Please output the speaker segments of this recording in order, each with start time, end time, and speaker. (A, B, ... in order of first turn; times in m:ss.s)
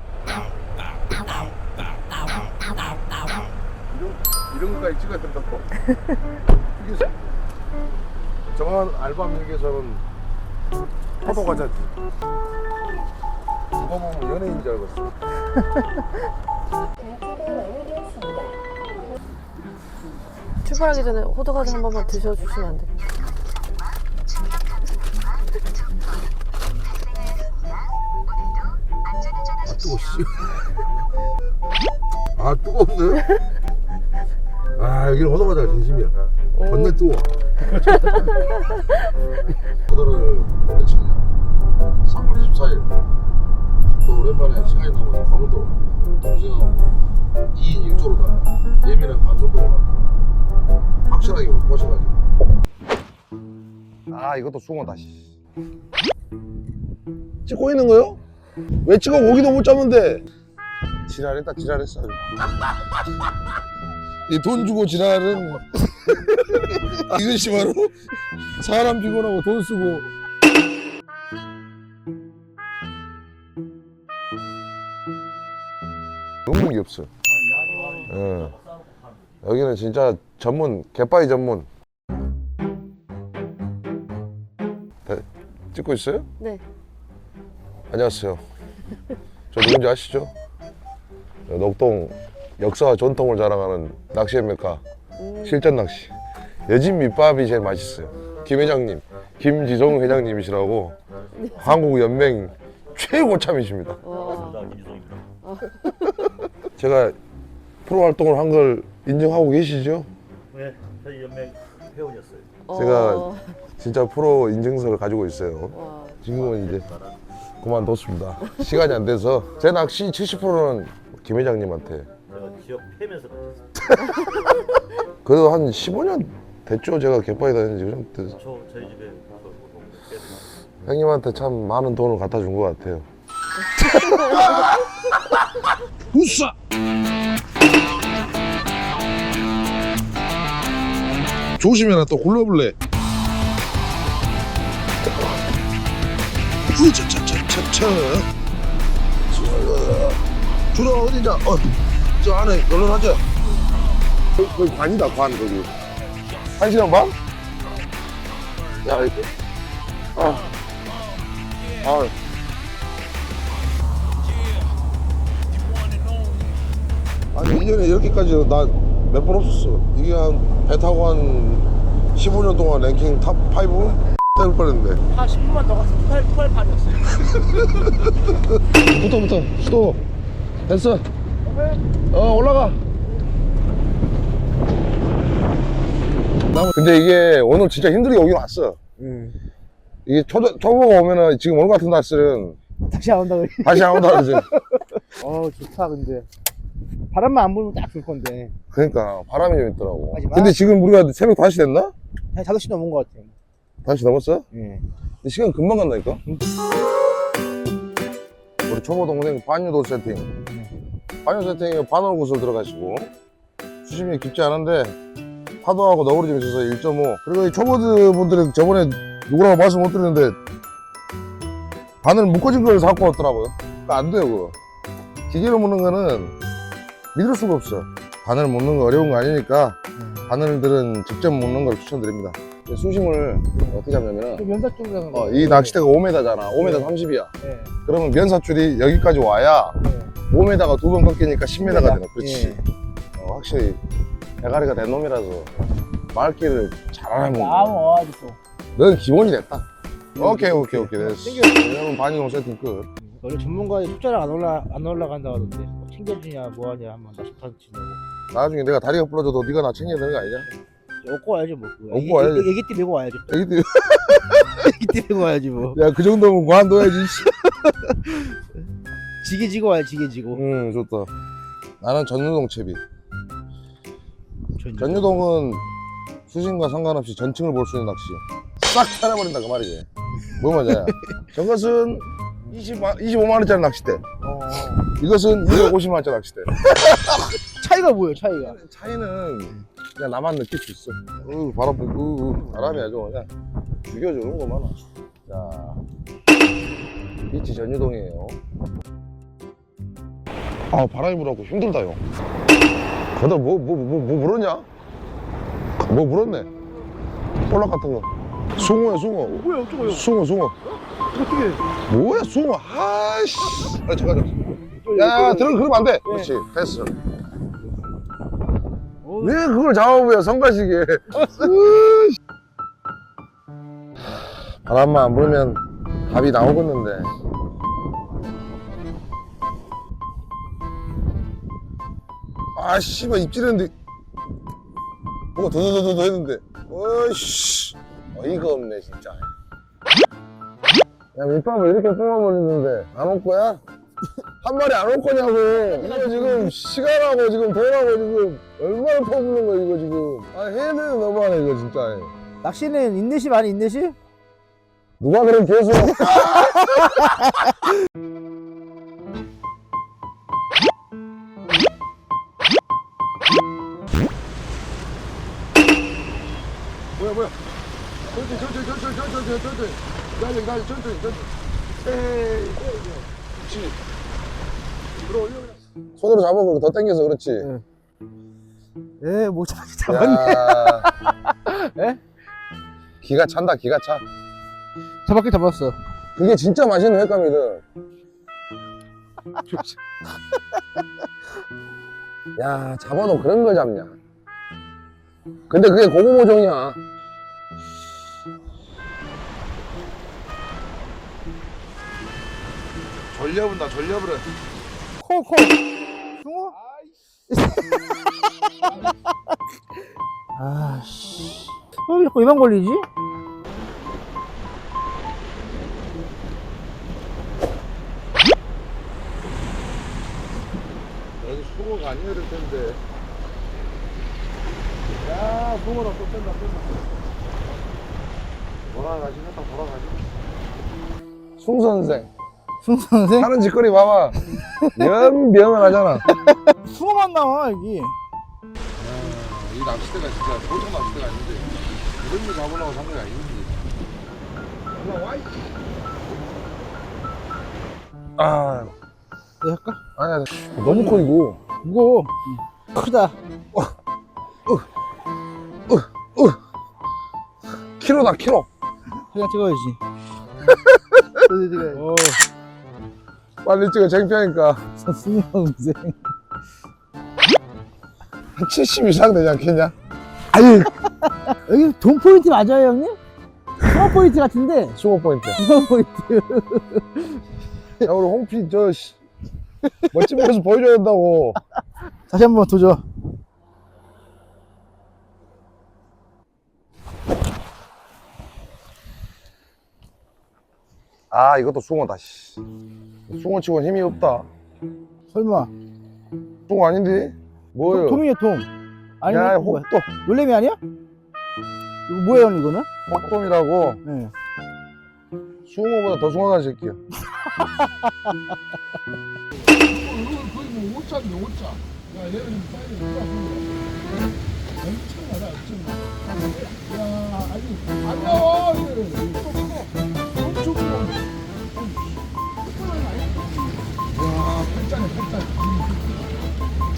0:01.2-0:03.5 A
0:03.9-0:05.7 B
0:06.7-0:07.1 B
0:08.5-0:10.0 B
0:11.2-0:11.9 B
0:13.8-0:15.1 B
0:20.6-0:22.9 C
0:29.6-0:30.8 B
0:32.3-0:33.3 B
0:34.8-0:38.4 B
0:36.5-0:36.9 C
0:39.8-0:41.2 B
0:42.0-0:42.9 B
0:44.0-0:46.9 B
0:47.5-0:50.2 B
0:51.1-0:52.2 B
0:54.1-0:55.2 B
0:57.4-0:58.2 B
0:58.8-1:00.2 B
1:01.1-1:02.3 B
1:04.3-1:05.6 B
1:06.9-1:07.9 B
1:08.6-1:10.1 B
1:16.5-1:17.1 B
1:17.2-1:19.4 D
1:18.1-1:18.5 B
1:19.4-1:21.7 B
1:25.0-1:26.3 B
1:27.9-1:28.4 B
1:29.5-1:30.3 B
1:31.5-1:34.8 B
1:35.2-1:35.6 C
1:35.4-1:36.1 B
1:36.7-1:41.0 B
1:41.4-1:41.7 C
1:41.4-1:41.8 D
1:41.6-1:44.0 B
1:44.0-1:44.6 C
1:44.0-1:45.2 D
1:45.4-1:46.3 C
1:46.8-1:47.2 B
1:47.8-1:50.1 B
1:50.5-1:52.6 D
1:52.6-1:53.6 C
1:52.7-1:56.8 B
1:55.7-1:56.2 C
1:56.2-1:57.2 D
1:57.6-2:02.1 B
2:02.3-2:03.9 D
2:05.2-2:08.4 B
2:08.3-2:10.6 D
2:10.8-2:13.0 B
2:13.6-2:14.8 C
2:14.3-2:14.6 B
2:16.1-2:16.5 B
2:21.6-2:22.8 B
2:26.7-2:28.3 B
2:29.3-2:33.2 B
2:34.4-2:35.8 B
2:36.5-2:37.1 B
2:38.7-2:39.4 B
2:40.1-2:40.5 B
2:41.8-2:42.1 B
2:47.3-2:55.0 B
2:55.1-2:57.4 A
2:58.7-3:00.0 B
3:00.6-3:01.0 B
3:01.4-3:01.8 A
3:02.1-3:02.8 B
3:06.5-3:08.8 B
3:09.0-3:09.4 A
3:10.0-3:12.6 B
3:12.8-3:14.4 A
3:13.6-3:14.5 B
3:15.1-3:16.3 A
3:17.1-3:18.5 A
3:18.7-3:21.9 B
3:20.1-3:20.5 A
3:22.3-3:23.3 A
3:23.8-3:24.5 B
3:24.5-3:24.9 A
3:25.2-3:26.2 B
3:28.7-3:30.4 B
3:30.4-3:30.7 A
3:31.2-3:33.1 B
3:33.8-3:35.0 B
3:35.6-3:40.4 B
3:42.0-3:44.5 B
3:45.3-3:46.3 B
3:47.1-3:49.8 B
3:50.0-3:50.2 A
3:50.3-3:54.5 B
3:53.5-3:53.8 A
3:54.4-3:55.8 A
3:55.1-3:57.3 B
3:56.6-3:56.9 A
3:57.4-3:57.7 A
3:57.8-3:59.8 B
3:59.8-4:00.1 A
4:00.3-4:02.6 B
4:01.6-4:02.6 A
4:03.2-4:03.8 B
4:04.4-4:05.5 B
4:06.1-4:07.8 B
4:07.4-4:08.4 A
4:08.8-4:12.9 B
4:10.2-4:11.5 A
4:13.0-4:18.0 A
4:18.3-4:20.5 B
4:21.0-4:23.4 A
4:21.9-4:22.6 B
4:23.3-4:24.5 B
4:24.3-4:25.8 A
4:25.7-4:27.3 B
4:27.1-4:28.4 A
4:29.2-4:30.4 A
4:30.3-4:31.1 B
4:31.8-4:32.8 B
4:34.5-4:35.1 A
4:34.8-4:35.6 B
4:36.3-4:46.5 B
4:46.6-4:48.6 A
4:48.4-4:53.3 B
4:53.8-4:55.8 B
4:57.3-4:58.4 B
5:00.7-5:02.0 B
5:03.2-5:04.6 B
5:05.8-5:06.5 B
5:07.4-5:10.6 B
5:09.3-5:10.1 A
5:11.1-5:11.6 A
5:11.9-5:14.3 B
5:14.8-5:16.3 A
5:14.9-5:16.9 B
5:19.0-5:19.4 A
5:19.2-5:22.2 B
5:24.2-5:27.1 B
5:32.6-5:33.7 B
5:35.3-5:39.3 B
5:41.1-5:43.6 B
5:44.4-5:52.1 B
5:45.8-5:46.5 A
5:52.4-5:54.0 A
5:55.0-5:56.6 B
6:07.0-6:07.4 B
6:08.1-6:13.8 B
6:15.0-6:17.5 B
6:17.4-6:17.6 A
6:19.0-6:22.0 A
6:19.9-6:20.9 B
6:23.0-6:24.0 B
6:25.0-6:25.8 A
6:26.2-6:27.6 B
6:32.4-6:34.0 B
6:35.5-6:36.8 B
6:43.1-6:44.3 B
6:45.0-6:45.6 A
6:46.2-6:46.5 A
6:47.3-6:48.0 A
6:48.6-6:48.9 A
6:50.3-6:52.8 A
7:01.2-7:02.8 B
7:04.9-7:06.9 B
7:08.6-7:10.0 B
7:11.4-7:12.1 B
7:12.6-7:13.3 A
7:13.2-7:14.2 B
7:14.7-7:16.1 B
7:16.1-7:18.0 A
7:18.8-7:23.7 B
7:24.7-7:25.5 B
7:28.2-7:28.7 B
7:29.4-7:29.8 A
7:30.0-7:31.4 B
7:30.6-7:31.0 A
7:31.6-7:33.2 A
7:35.7-7:36.4 B
7:37.8-7:38.5 B
7:39.0-7:39.8 A
7:41.2-7:42.2 A
7:43.4-7:44.6 B
7:44.8-7:46.0 A
7:48.3-7:49.7 B
7:50.3-7:50.7 A
7:51.3-7:53.0 A
7:53.6-7:54.8 A
7:54.8-7:55.4 B
7:55.3-7:57.2 A
7:57.8-7:59.0 B
7:59.8-8:01.4 B
8:02.1-8:02.8 A
8:11.1-8:12.4 B
8:13.1-8:14.3 B
8:15.1-8:15.5 A
8:16.5-8:18.0 B
8:17.6-8:18.5 A
8:19.0-8:20.6 A
8:19.1-8:19.9 B
8:21.9-8:22.7 A
8:22.9-8:23.8 B
8:23.8-8:24.1 A
8:25.4-8:26.8 B
8:27.1-8:28.1 A
8:29.5-8:33.7 B
8:34.6-8:39.6 B
8:37.9-8:38.2 A
8:39.1-8:39.6 A
8:40.2-8:41.0 B
8:42.5-8:43.6 A
8:43.9-8:46.1 B